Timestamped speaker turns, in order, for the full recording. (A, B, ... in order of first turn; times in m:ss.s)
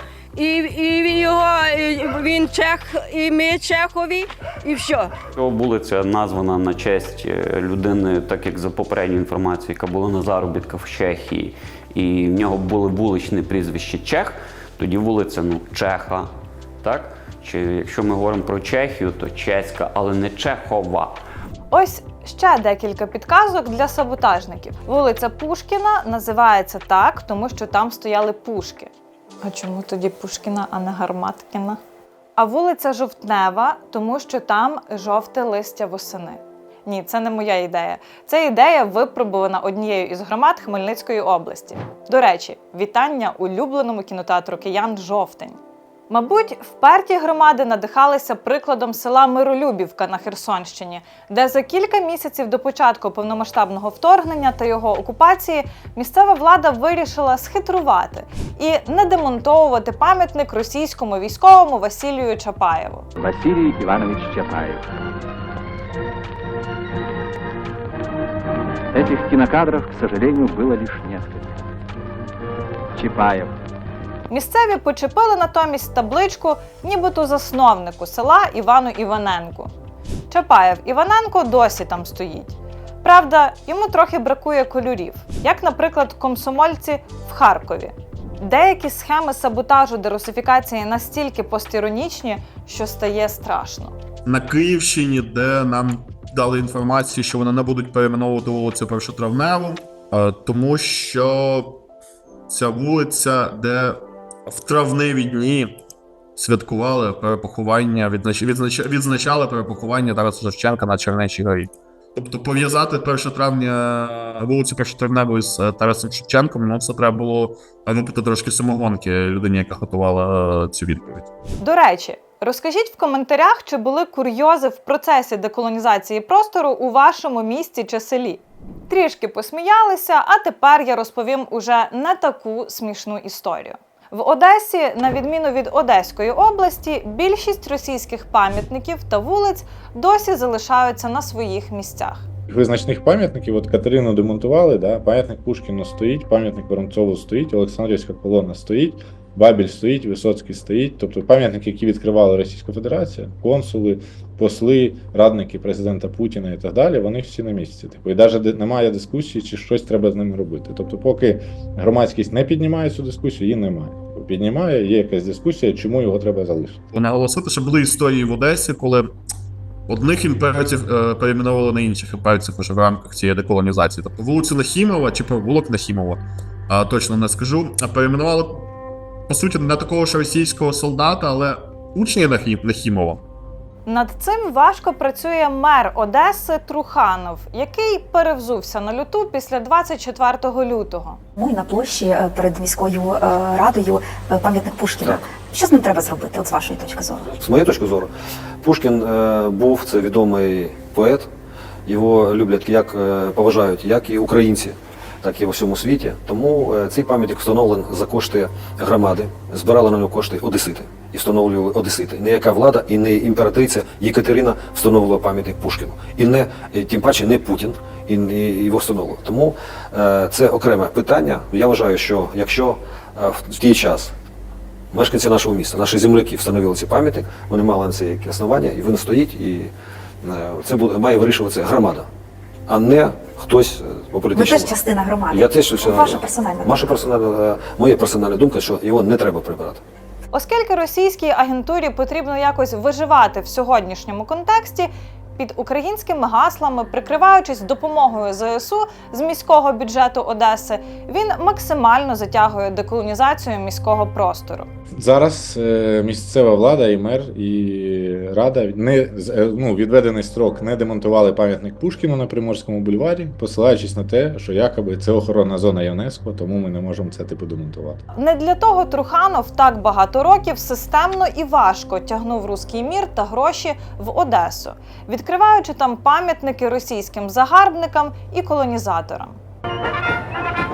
0:00.3-0:05.1 A
0:05.3-0:21.2 B
0:21.7-0:28.9 C
0:29.4-0:31.8 C
0:32.4-0:45.6 C
0:46.1-1:03.0 C
1:03.2-1:04.9 D
1:08.9-1:11.5 D
1:13.0-1:13.6 D
1:14.3-1:19.7 C
1:20.3-1:33.9 C
1:34.2-1:41.8 E
1:42.5-1:45.8 E
1:46.4-2:01.3 E
2:01.6-2:22.2 C
2:22.5-2:46.8 F
2:46.9-2:49.1 E
2:49.9-2:58.7 E
2:59.3-3:03.2 E
3:03.8-3:11.2 C
3:11.4-3:17.3 G
3:17.3-3:18.1 H
3:18.6-3:21.3 H
3:21.8-3:44.1 H
3:44.9-3:49.7 H
3:50.2-3:52.1 H
3:52.7-3:59.8 H
3:54.3-3:56.9 G
4:00.3-4:14.7 C
4:14.9-4:28.0 F
4:28.1-4:39.4 C